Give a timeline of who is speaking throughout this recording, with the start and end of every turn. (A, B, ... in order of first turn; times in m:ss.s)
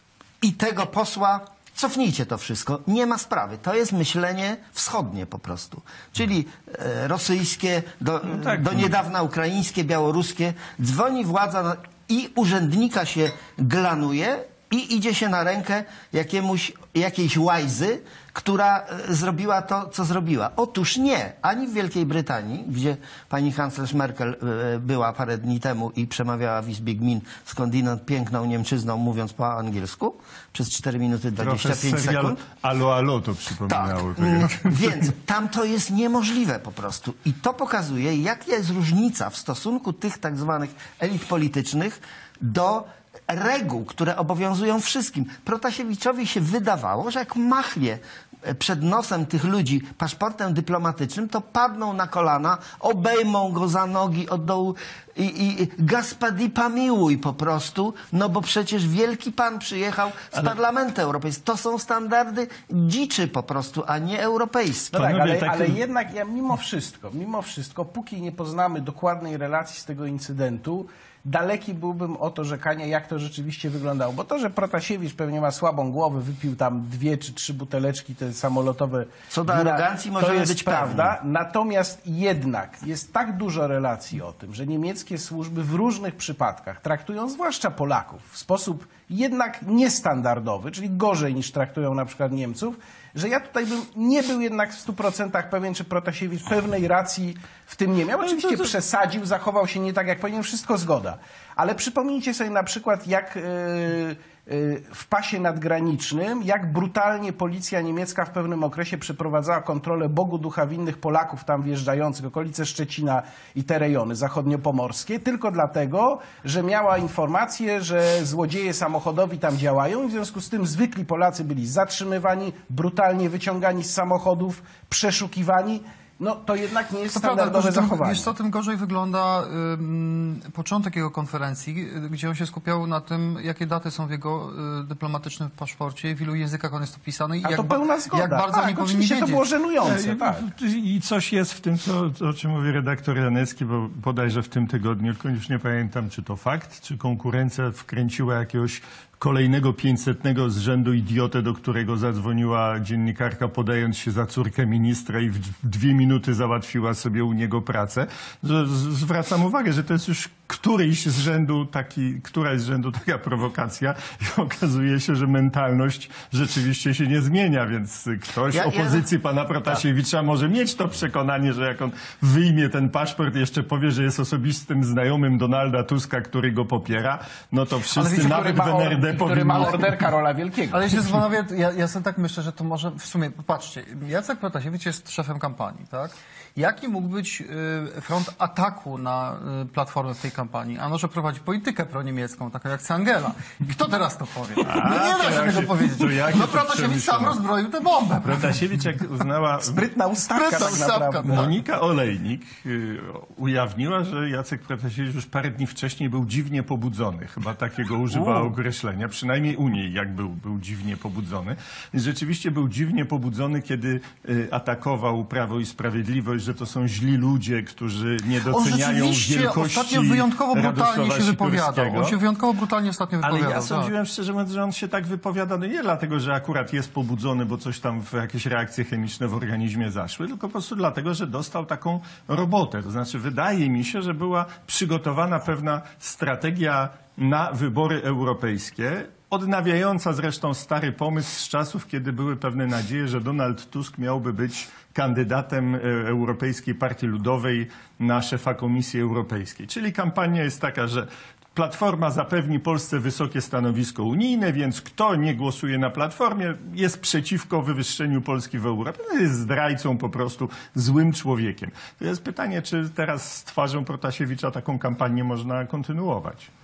0:00.4-0:32.4 A
0:08.3-0:08.9 B
0:31.4-0:35.0 B
0:33.7-1:04.9 A
1:04.9-1:05.8 B
1:04.9-2:08.3 C
1:19.3-1:21.2 A
2:07.1-2:19.4 D
2:17.4-2:20.5 C
2:19.8-3:00.0 B
2:48.5-2:49.1 A
2:57.9-3:01.1 C
3:00.7-3:18.6 D
3:14.6-3:17.4 B
3:18.2-3:19.9 B
3:19.6-3:21.5 C
3:20.3-3:21.5 D
3:21.2-3:42.2 B
3:38.5-3:43.9 D
3:43.2-4:26.5 B